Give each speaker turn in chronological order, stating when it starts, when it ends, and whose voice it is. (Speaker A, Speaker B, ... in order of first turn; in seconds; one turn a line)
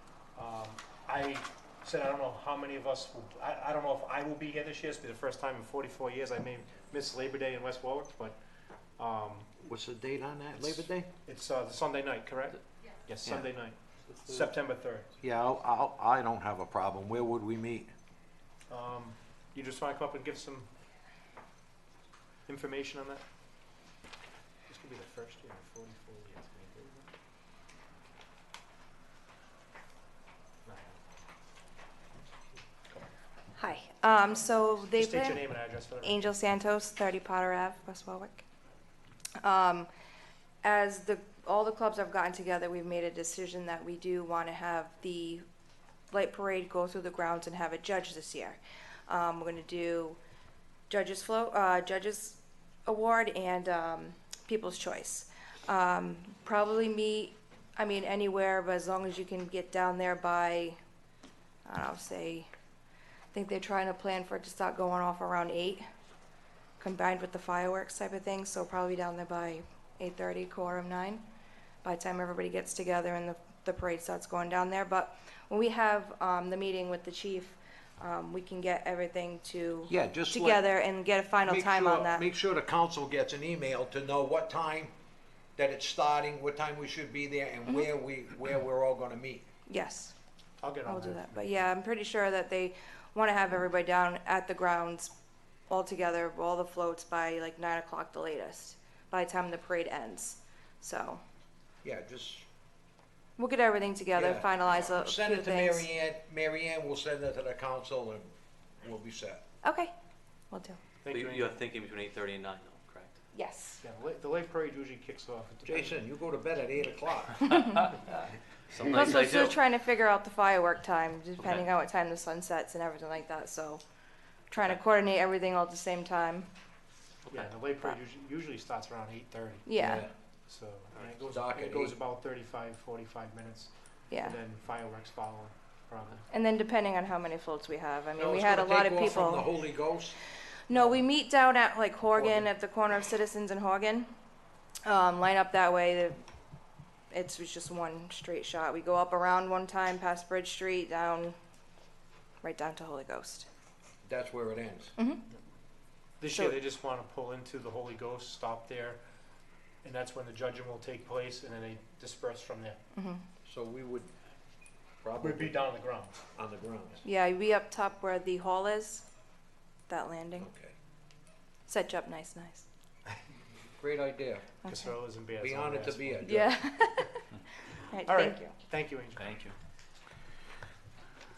Speaker A: 0.4-8.4
Speaker A: 9.0-9.5
Speaker B: 9.6-11.1
Speaker A: 10.6-15.1
Speaker C: 14.2-14.4
Speaker B: 15.2-17.9
Speaker A: 18.7-20.7
Speaker A: 22.5-23.2
Speaker A: 24.7-27.1
Speaker A: 30.6-31.0
Speaker D: 33.6-35.4
Speaker A: 34.9-36.3
Speaker D: 36.0-38.4
Speaker D: 39.4-39.9
Speaker D: 40.6-45.4
Speaker D: 46.1-50.2
Speaker D: 50.9-60.8
Speaker D: 61.7-62.5
Speaker D: 63.3-65.8
Speaker D: 66.8-71.2
Speaker D: 71.8-82.2
Speaker B: 79.9-80.6
Speaker B: 81.4-84.9
Speaker B: 85.6-89.5
Speaker D: 89.7-90.1
Speaker A: 90.6-91.5
Speaker D: 90.9-95.1
Speaker D: 95.7-101.2
Speaker B: 101.8-102.5
Speaker D: 103.4-105.9
Speaker B: 104.1-109.4
Speaker D: 109.6-109.9
Speaker D: 110.5-110.8
Speaker A: 111.0-111.6
Speaker C: 111.1-113.2
Speaker D: 113.3-113.8
Speaker A: 113.8-116.0
Speaker B: 115.7-117.6
Speaker D: 117.5-117.9
Speaker C: 117.6-118.1
Speaker C: 118.7-119.6
Speaker D: 118.9-123.8
Speaker C: 121.4-121.7
Speaker D: 124.5-126.5
Speaker A: 127.3-133.7
Speaker D: 129.7-130.0
Speaker B: 129.8-130.1
Speaker B: 131.2-132.0
Speaker D: 134.1-134.3
Speaker A: 134.2-136.2
Speaker D: 136.3-139.5
Speaker B: 138.2-140.2
Speaker D: 140.7-144.1
Speaker A: 140.7-141.0
Speaker A: 142.2-142.5
Speaker D: 144.9-146.2
Speaker D: 147.1-151.4
Speaker D: 152.4-153.5
Speaker B: 154.1-154.9
Speaker A: 156.2-159.0
Speaker A: 159.8-162.8
Speaker D: 162.9-163.2
Speaker B: 163.4-164.1
Speaker B: 165.0-165.6
Speaker A: 165.2-166.2
Speaker B: 166.3-167.0
Speaker D: 167.0-169.1
Speaker D: 169.9-170.5
Speaker B: 170.4-170.7
Speaker D: 171.7-172.7
Speaker B: 173.8-174.5
Speaker D: 174.7-174.9
Speaker A: 174.7-176.3
Speaker B: 175.4-176.6
Speaker D: 176.2-178.6
Speaker A: 178.0-179.4
Speaker C: 179.2-179.5